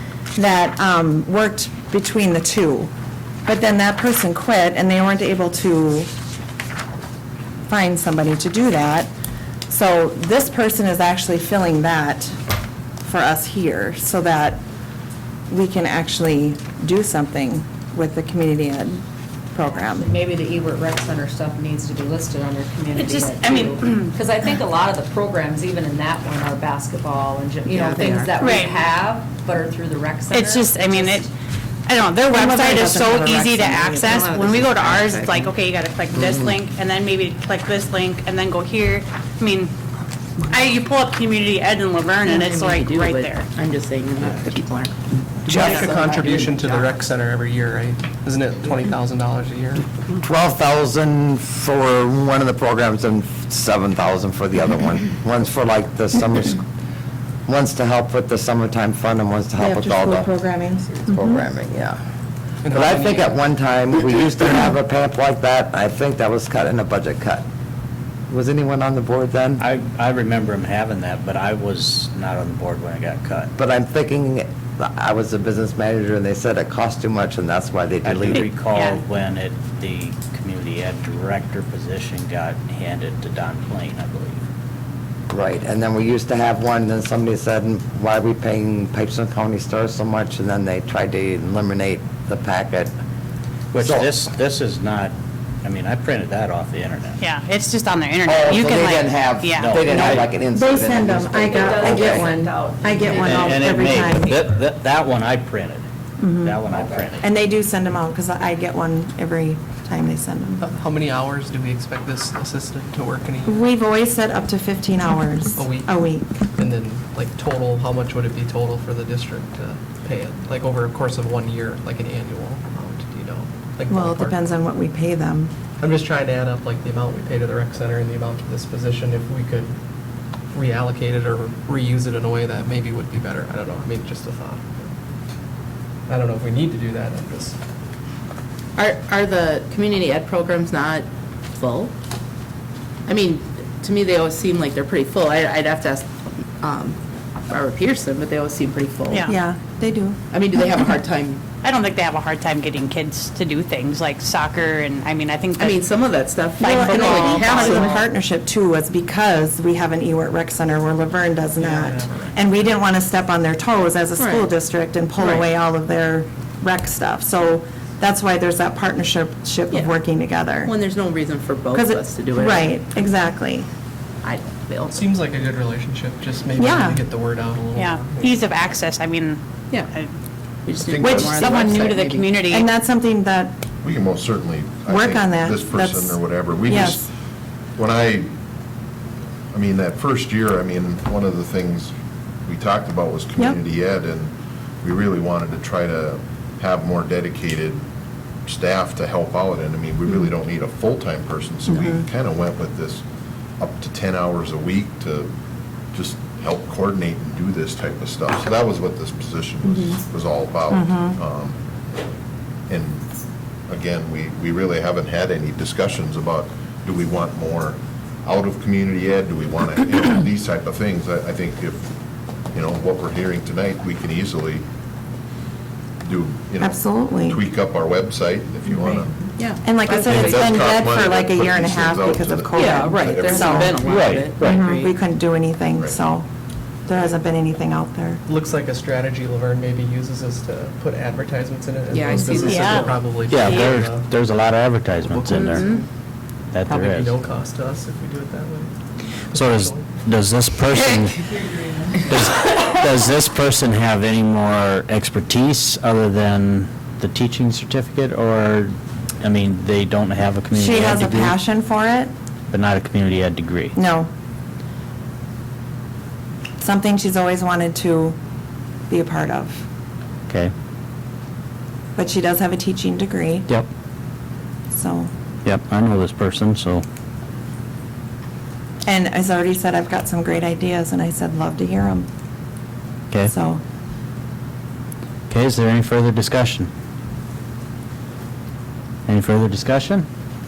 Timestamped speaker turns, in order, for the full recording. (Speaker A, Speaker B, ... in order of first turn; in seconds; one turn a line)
Speaker A: 0.3-2.9
Speaker A: 3.5-6.1
Speaker A: 7.7-9.1
Speaker A: 9.7-12.4
Speaker A: 13.0-14.6
Speaker A: 15.5-20.1
Speaker B: 19.8-31.2
Speaker C: 22.9-24.1
Speaker D: 27.7-28.3
Speaker C: 28.4-28.8
Speaker C: 30.3-31.3
Speaker C: 31.9-39.7
Speaker A: 32.3-34.0
Speaker D: 33.7-35.6
Speaker C: 40.5-43.5
Speaker D: 42.2-47.1
Speaker E: 45.5-49.9
Speaker F: 45.5-45.9
Speaker F: 50.2-56.6
Speaker F: 57.5-60.3
Speaker A: 59.6-61.4
Speaker F: 61.1-62.0
Speaker E: 62.6-63.3
Speaker F: 62.7-67.4
Speaker F: 68.3-69.6
Speaker G: 69.6-73.5
Speaker F: 73.6-78.5
Speaker G: 78.0-84.4
Speaker F: 85.3-92.9
Speaker G: 93.7-97.2
Speaker F: 93.8-94.1
Speaker C: 97.2-100.2
Speaker F: 98.2-102.3
Speaker G: 99.6-100.2
Speaker A: 100.5-104.4
Speaker B: 101.3-103.6
Speaker G: 103.2-105.8
Speaker A: 106.2-106.6
Speaker G: 106.4-107.2
Speaker A: 107.2-110.7
Speaker E: 110.6-113.7
Speaker A: 113.5-116.3
Speaker E: 115.5-124.4
Speaker A: 123.9-125.5
Speaker E: 125.8-129.8
Speaker E: 130.5-134.9
Speaker E: 136.1-137.6
Speaker D: 138.8-141.9
Speaker D: 143.1-149.4
Speaker A: 149.3-150.2
Speaker D: 150.3-151.4
Speaker C: 151.6-155.8
Speaker D: 155.6-158.0
Speaker A: 156.6-170.7
Speaker C: 156.8-158.0
Speaker E: 161.6-162.4
Speaker D: 164.2-164.5
Speaker D: 165.2-165.5
Speaker D: 169.7-170.0
Speaker D: 170.6-172.8
Speaker A: 171.7-173.7
Speaker D: 174.2-175.1
Speaker E: 174.9-178.3
Speaker A: 176.6-177.0
Speaker C: 177.8-180.1
Speaker D: 180.6-182.6
Speaker A: 181.0-181.9
Speaker C: 181.5-182.6
Speaker A: 182.5-183.5
Speaker H: 183.8-187.1
Speaker A: 184.9-187.1
Speaker H: 187.8-188.3
Speaker H: 189.5-191.9
Speaker H: 192.4-197.8
Speaker H: 198.4-203.0
Speaker A: 201.7-202.0
Speaker H: 203.6-205.3
Speaker H: 205.9-211.6
Speaker A: 209.7-210.0
Speaker A: 210.7-211.2
Speaker H: 212.7-213.1
Speaker H: 213.7-221.9
Speaker H: 222.5-224.6
Speaker H: 226.0-229.3
Speaker A: 226.6-227.4
Speaker D: 229.4-230.6
Speaker A: 229.6-233.8
Speaker H: 230.0-233.6
Speaker D: 232.6-234.9
Speaker G: 233.5-234.6
Speaker A: 234.4-236.3
Speaker A: 236.9-238.2
Speaker E: 238.2-244.1
Speaker D: 241.9-243.0
Speaker C: 242.5-242.8
Speaker G: 243.3-245.7
Speaker E: 245.0-245.9
Speaker C: 245.4-245.8
Speaker G: 246.5-247.2
Speaker E: 246.6-248.7
Speaker E: 249.3-249.8
Speaker G: 249.3-251.2
Speaker G: 252.0-261.4
Speaker A: 260.5-262.1
Speaker G: 262.5-263.7
Speaker A: 263.7-264.1
Speaker A: 266.6-268.2
Speaker A: 268.9-269.6
Speaker G: 270.3-270.5
Speaker A: 271.9-273.5
Speaker A: 274.7-275.1
Speaker G: 275.4-276.8
Speaker A: 278.9-282.1
Speaker A: 283.3-283.6
Speaker G: 285.3-286.7
Speaker G: 289.1-290.1